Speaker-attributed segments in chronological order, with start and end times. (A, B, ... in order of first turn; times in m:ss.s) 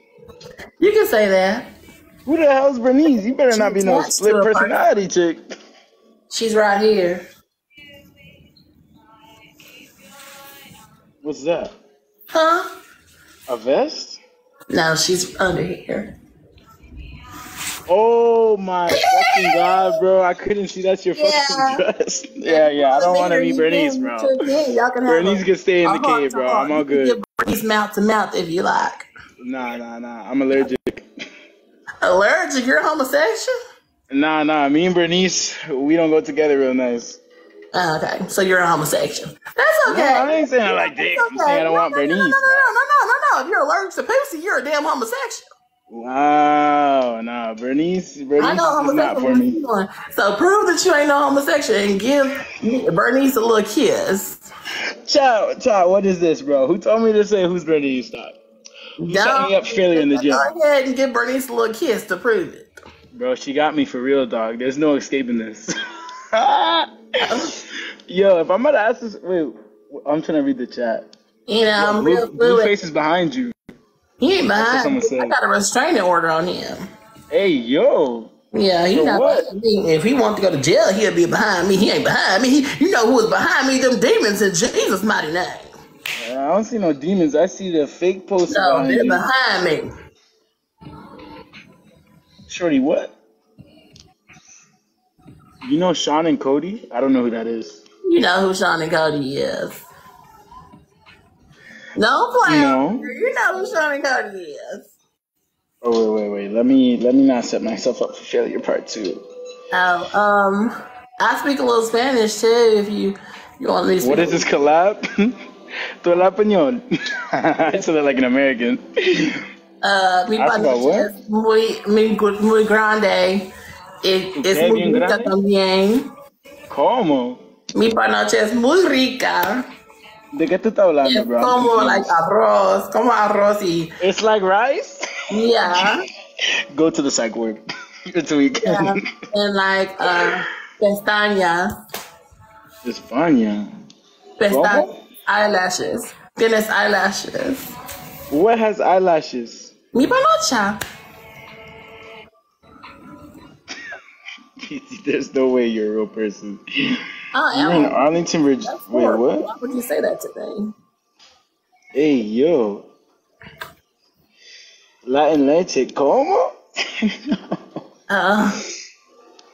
0:00.8-0:01.7 A
0:02.2-0:05.4 B
0:03.5-0:04.9 A
0:06.3-0:07.2 A
0:11.2-0:11.7 B
0:12.3-0:12.7 A
0:13.5-0:14.2 B
0:14.7-0:16.1 A
0:17.9-0:24.4 B
0:18.9-0:20.0 A
0:21.2-0:21.8 A
0:22.5-0:29.1 A
0:25.0-0:27.2 B
0:29.4-0:31.1 B
0:32.0-0:33.6 A
0:34.1-0:37.2 B
0:37.7-0:45.5 A
0:39.8-0:42.5 B
0:45.9-0:49.6 B
0:48.4-0:54.4 A
0:55.1-0:58.4 B
0:59.0-1:02.7 A
0:59.0-1:00.4 B
1:03.1-1:05.7 B
1:06.3-1:07.4 B
1:07.3-1:07.5 A
1:08.1-1:11.1 B
1:11.5-1:12.7 A
1:11.8-1:13.5 B
1:14.2-1:16.8 A
1:14.6-1:15.3 B
1:17.3-1:18.3 B
1:18.5-1:25.7 A
1:18.9-1:19.5 B
1:26.2-1:29.2 B
1:28.5-1:29.9 A
1:32.5-1:33.1 B
1:35.6-1:37.8 B
1:38.0-1:39.8 A
1:42.0-1:44.9 A
1:42.4-1:43.0 B
1:45.8-1:49.2 B
1:49.7-1:54.5 A
1:54.0-1:55.4 B
1:56.0-1:59.4 B
1:59.8-2:03.5 A
2:00.4-2:01.1 B
2:04.0-2:06.1 A
2:04.4-2:05.3 B
2:06.7-2:07.4 B
2:07.7-2:09.6 A
2:10.3-2:12.1 B
2:11.0-2:13.9 A
2:14.0-2:15.0 B
2:15.3-2:16.0 A
2:16.7-2:19.0 B
2:18.6-2:21.7 A
2:22.8-2:23.7 B
2:24.4-2:27.7 A
2:24.5-2:25.0 B
2:28.3-2:29.7 B
2:29.9-2:30.8 A
2:34.6-2:36.6 B
2:37.3-2:38.0 A
2:37.5-2:39.5 B
2:38.6-2:40.7 A
2:41.9-2:42.9 B
2:45.0-2:47.6 B
2:48.1-2:48.6 A